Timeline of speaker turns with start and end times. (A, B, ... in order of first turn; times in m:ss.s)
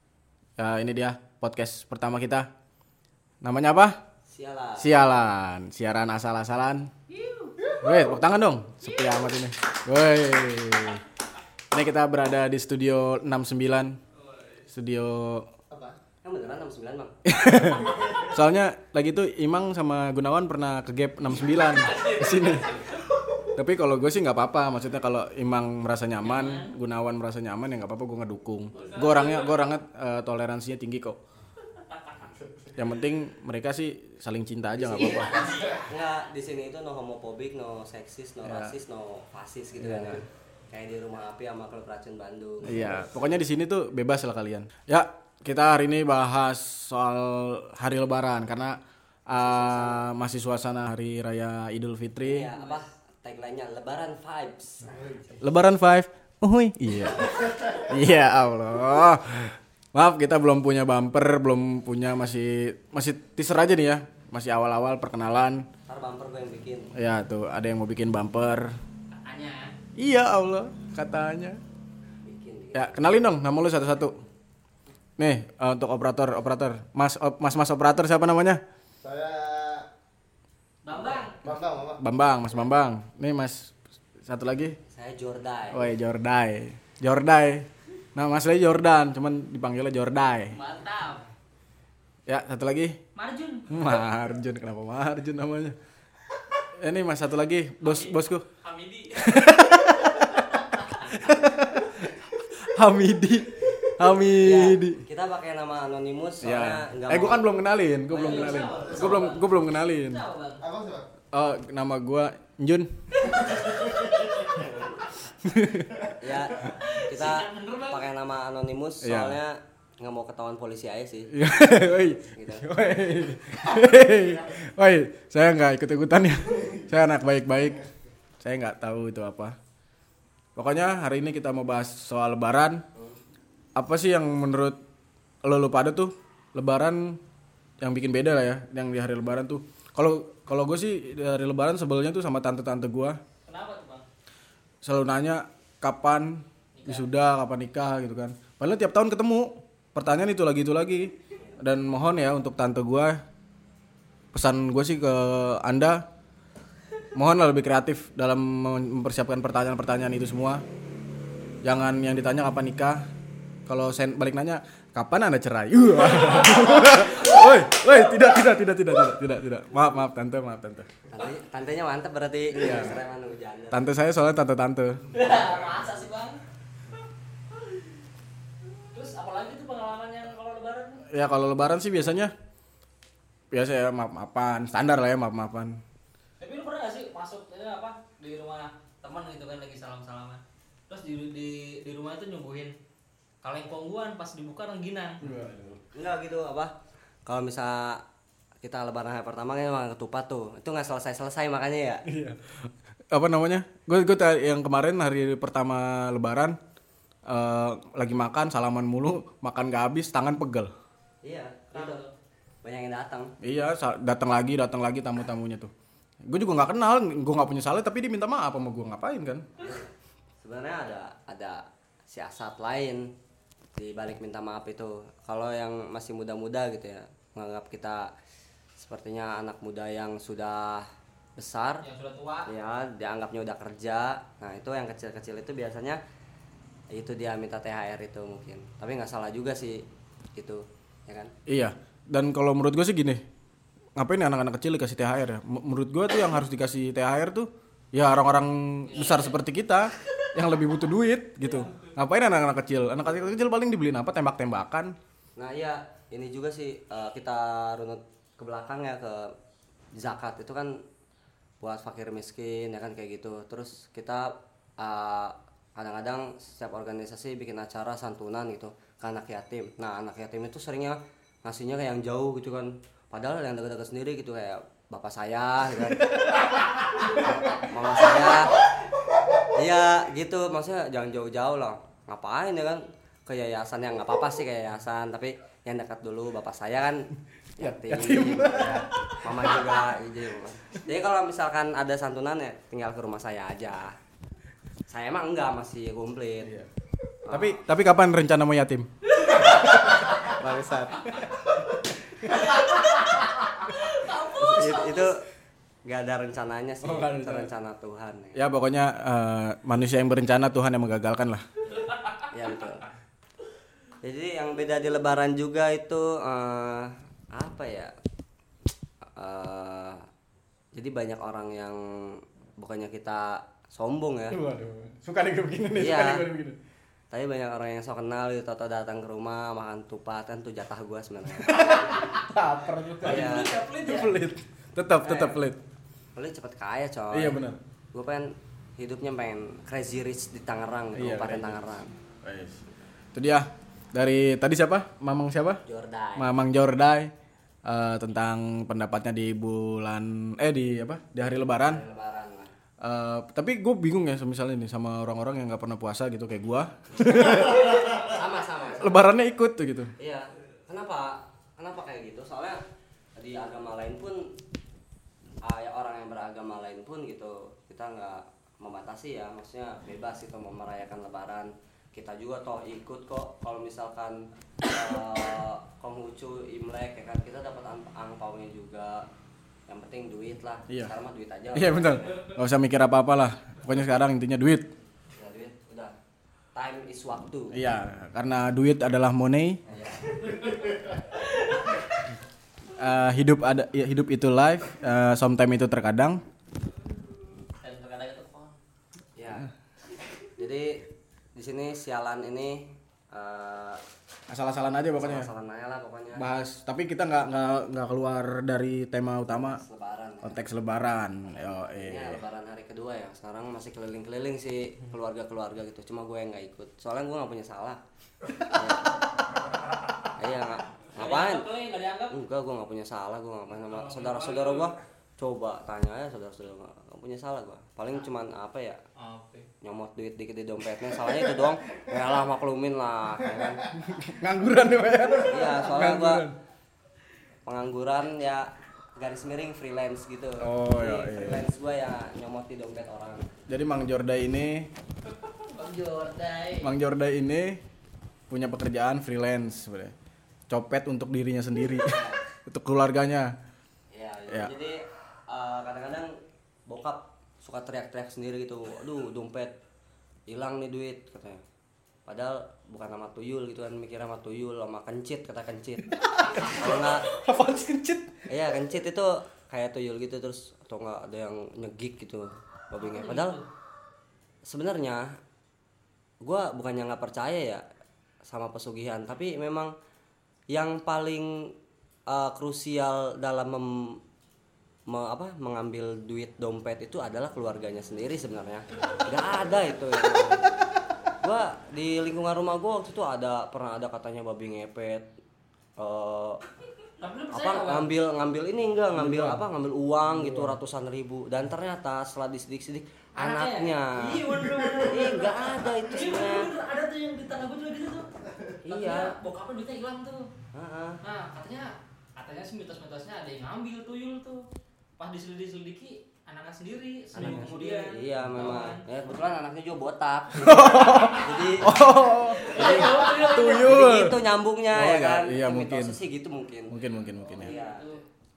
0:00.6-0:02.5 A
0:03.4-0:04.0 A
0:04.3-0:04.9 B
0:04.8-0:06.9 A
0:07.1-0:07.6 C
0:07.8-0:11.0 A
0:11.7-0:14.0 A
0:14.7-0:15.5 A
0:15.7-0:16.0 D
0:16.2-0:17.2 B
0:17.2-0:22.9 A
0:21.4-0:23.2 C
0:23.5-0:31.2 A
0:26.2-0:26.7 C
0:28.7-0:29.7 C
0:31.7-0:32.3 C
0:32.4-0:32.7 D
0:32.7-0:35.5 A
0:34.8-0:43.0 B
0:34.9-0:35.8 C
0:38.4-0:38.7 A
0:39.8-0:40.2 A
0:42.6-0:52.5 A
0:49.3-0:50.1 B
0:52.2-0:55.0 B
0:54.9-0:55.4 D
0:55.4-1:05.7 A
0:57.5-0:57.8 D
1:05.9-1:06.9 B
1:06.9-1:08.7 A
1:09.1-1:09.7 C
1:10.0-1:11.6 A
1:12.2-1:13.2 B
1:12.7-1:14.2 A
1:15.2-1:18.6 A
1:19.0-1:19.8 D
1:20.8-1:21.4 C
1:21.0-1:22.0 D
1:21.5-1:24.8 A
1:24.9-1:25.9 B
1:25.7-1:30.6 A
1:30.5-1:31.3 C
1:32.3-1:33.0 A
1:33.2-1:33.9 C
1:33.7-1:35.8 A
1:36.8-1:38.4 A
1:37.8-1:41.0 C
1:39.2-1:45.0 A
1:44.4-1:47.5 B
1:46.4-1:50.2 A
1:48.1-1:50.6 C
1:48.2-1:48.6 B
1:48.7-1:49.3 D
1:50.6-1:51.1 D
1:51.3-1:52.9 A
1:53.3-1:54.7 C
1:54.6-1:54.8 B
1:55.4-1:56.1 A
1:56.2-2:01.3 B
1:56.6-1:58.1 C
1:59.0-1:59.4 A
2:01.3-2:07.8 A
2:02.3-2:02.7 B
2:08.4-2:09.6 A
2:10.5-2:12.8 A
2:13.8-2:14.8 A
2:15.4-2:17.2 A
2:17.8-2:23.2 A
2:23.4-2:24.0 C
2:24.8-2:33.2 A
2:26.7-2:27.1 C
2:34.3-2:36.0 A
2:37.1-2:40.6 A
2:41.6-2:43.0 A
2:43.6-2:50.9 A
2:51.1-2:53.9 B
2:52.5-2:53.0 A
2:53.7-2:55.0 A
2:55.1-2:56.4 C
2:58.9-3:01.0 C
3:01.1-3:02.3 A
3:03.5-3:05.8 A
3:06.4-3:12.7 C
3:13.4-3:15.2 C
3:15.2-3:15.8 A
3:15.9-3:16.7 B
3:17.2-3:18.0 B
3:18.6-3:22.0 B
3:22.0-3:26.6 A
3:27.3-3:30.7 A
3:31.2-3:32.0 B
3:31.7-3:32.1 C
3:32.6-3:33.3 B
3:33.4-3:35.7 A
3:36.2-3:39.4 A
3:40.4-3:43.1 B
3:43.7-3:48.1 B
3:48.8-3:51.8 B
3:51.8-3:52.5 C
3:52.4-3:56.0 B
3:56.9-3:59.8 B
4:00.3-4:01.3 B
4:01.5-4:03.2 A
4:04.0-4:15.0 A
4:08.9-4:09.4 C
4:15.4-4:19.3 B
4:19.9-4:20.8 B
4:21.6-4:36.4 B
4:36.9-4:38.6 B
4:39.5-4:54.0 B
4:47.6-4:49.9 A
4:54.9-4:56.5 B
4:56.4-4:56.7 A
4:57.2-4:57.6 B
4:57.3-5:01.4 A
5:02.4-5:05.1 C
5:04.3-5:05.2 B
5:05.8-5:08.4 B
5:06.8-5:07.5 A
5:08.3-5:11.4 A
5:11.7-5:12.9 B
5:11.9-5:12.3 C
5:14.0-5:17.9 B
5:19.2-5:20.0 B
5:20.7-5:24.4 B
5:24.3-5:26.6 A
5:25.7-5:26.2 B
5:27.1-5:31.9 B
5:31.4-5:35.6 A
5:33.0-5:34.2 C
5:33.0-5:33.5 B
5:35.0-5:35.4 B
5:36.2-5:37.4 B
5:37.1-5:37.6 A
5:37.9-5:41.9 B
5:40.9-5:42.6 A
5:43.1-5:45.6 A
5:45.6-5:46.3 B
5:46.2-5:47.1 A
5:47.6-5:51.8 A
5:51.3-5:52.5 B
5:52.8-5:58.1 A
5:57.1-5:59.0 B
5:58.8-5:59.9 A
6:00.0-6:02.6 B
6:03.2-6:04.4 B
6:05.4-6:19.0 B
6:19.7-6:22.2 B
6:21.5-6:24.7 A
6:25.1-6:25.9 B
6:26.5-6:27.6 B
6:27.5-6:29.6 A
6:29.7-6:30.3 B
6:30.3-6:31.7 C
6:32.8-6:36.2 A
6:37.6-6:38.6 C
6:39.2-6:39.5 B
6:40.4-6:43.8 B
6:44.3-6:45.3 A
6:45.0-6:46.3 B
6:46.2-6:49.6 A
6:49.3-6:50.4 B
6:50.2-6:52.2 A
6:51.3-6:57.8 B
6:58.4-6:59.0 B
7:00.2-7:01.5 B
7:01.0-7:02.1 C
7:02.1-7:08.8 B
7:03.7-7:04.7 C
7:09.0-7:09.5 C
7:09.6-7:13.6 B
7:13.8-7:16.4 A
7:15.3-7:16.2 B
7:17.4-7:23.3 B
7:20.4-7:21.5 A
7:23.5-7:24.7 A
7:25.2-7:26.7 C
7:26.6-7:27.6 A
7:28.3-7:29.9 A
7:30.5-7:33.3 A
7:31.8-7:32.2 B
7:33.9-7:39.6 B
7:40.3-7:41.4 B
7:42.0-7:47.1 B
7:46.0-7:48.2 A
7:48.3-7:53.4 B
7:52.8-7:53.4 C
7:54.4-7:55.2 B
7:56.2-7:57.6 B
7:58.2-7:59.7 B
8:00.5-8:01.5 B
8:02.1-8:04.0 B
8:04.9-8:10.6 B
8:11.2-8:15.1 B
8:15.8-8:16.4 B
8:17.0-8:17.9 C
8:17.3-8:24.2 B
8:18.9-8:19.4 A
8:20.1-8:20.6 A
8:23.2-8:28.1 C
8:24.3-8:25.3 D
8:24.8-8:26.5 B
8:28.6-8:29.2 B
8:28.7-8:30.3 C
8:30.5-8:31.0 B
8:31.0-8:34.4 C
8:35.0-8:38.8 C
8:37.1-8:46.8 B
8:40.3-8:46.0 A
8:41.0-8:41.5 C
8:42.4-8:43.8 C
8:46.7-8:47.5 A
8:47.2-8:48.0 C
8:47.4-8:48.0 B